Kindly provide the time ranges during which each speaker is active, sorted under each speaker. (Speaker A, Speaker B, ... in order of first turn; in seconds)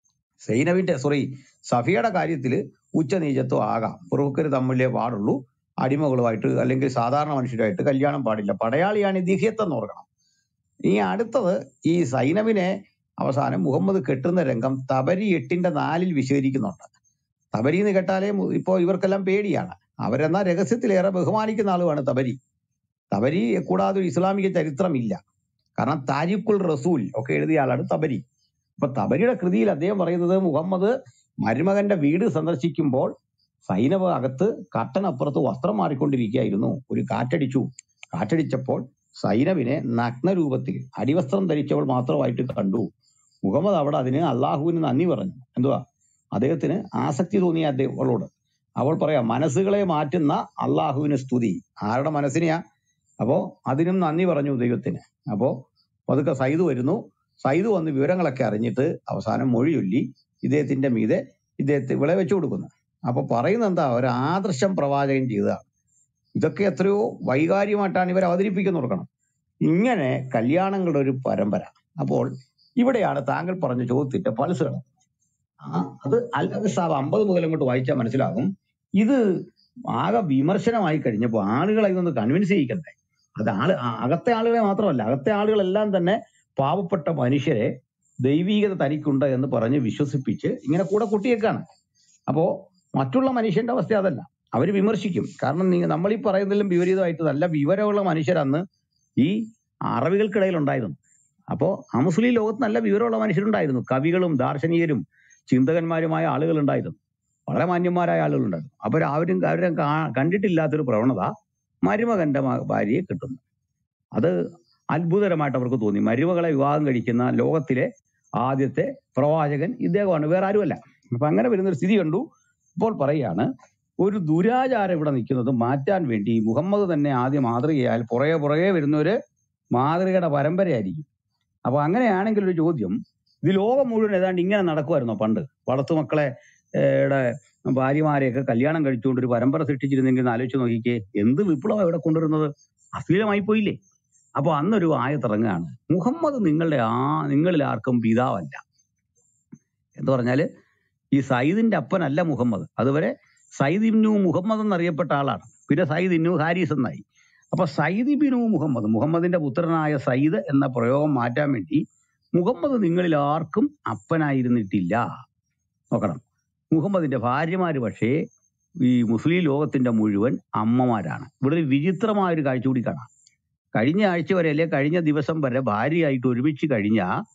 Speaker A: 0.4-10.1, 10.9-16.9, 17.5-22.4, 23.1-25.2, 25.8-28.2, 28.8-30.9, 31.4-33.1, 33.7-42.9, 43.4-45.8, 46.3-52.6, 53.2-55.5, 56.1-65.6, 66.3-69.1, 69.7-72.3, 72.8-74.9, 75.6-79.2, 79.9-87.7, 88.2-91.6, 92.3-98.6, 99.2-101.0, 101.5-107.0, 107.5-111.3, 111.8-113.4, 114.9-117.9, 118.4-122.2, 122.8-123.5, 124.0-129.2, 129.8-131.1, 131.7-143.8, 144.4-148.6, 150.0-150.4, 151.2-161.8, 162.3-165.0, 165.9-166.2, 166.7-168.2, 168.8-173.1, 173.7-177.1